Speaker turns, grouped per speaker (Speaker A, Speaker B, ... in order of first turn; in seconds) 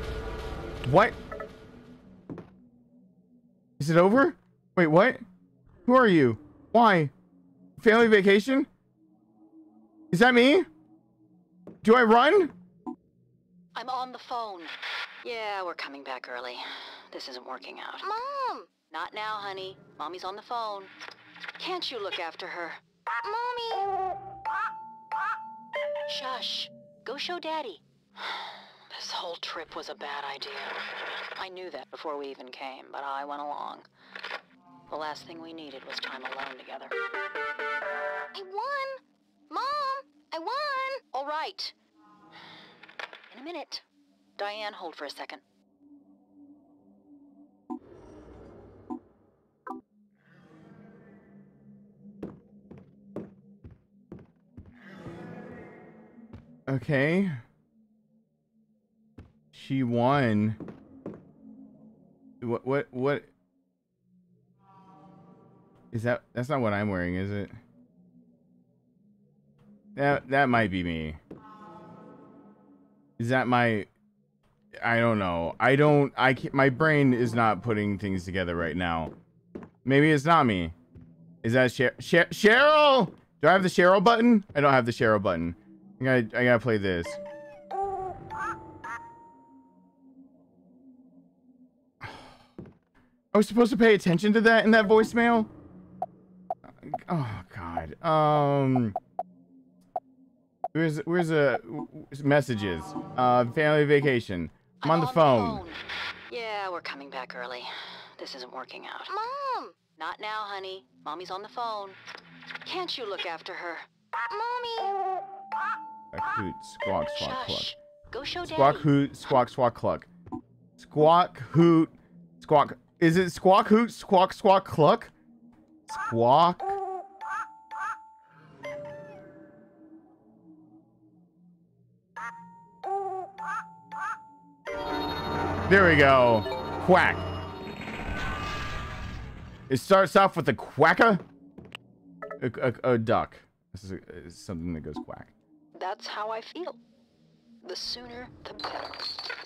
Speaker A: 0.8-1.1, 3.8-5.2, 5.9-7.1, 7.8-8.7, 10.1-10.7, 11.8-12.5, 56.7-57.4, 59.5-60.6, 62.4-63.3, 65.9-67.6, 70.0-71.2, 73.2-73.9, 74.8-79.1, 79.8-80.7, 81.4-87.2, 92.0-92.3, 93.3-95.5, 96.8-99.0, 100.7-105.6, 116.1-117.7, 118.5-120.1, 120.8-125.1, 125.9-126.8, 135.7-137.3, 139.7-141.2, 142.4-145.3
Speaker B: 13.7-14.7, 15.2-18.1, 18.9-20.9, 21.6-22.8, 26.1-33.9, 34.9-37.0, 41.1-41.7, 43.3-43.9, 44.4-45.4, 104.8-109.1, 109.9-112.0, 112.7-113.9, 117.2-118.9, 145.7-146.8, 147.6-149.3
Speaker C: 18.0-18.7, 23.2-23.9, 38.3-41.1, 109.1-109.8, 114.3-115.0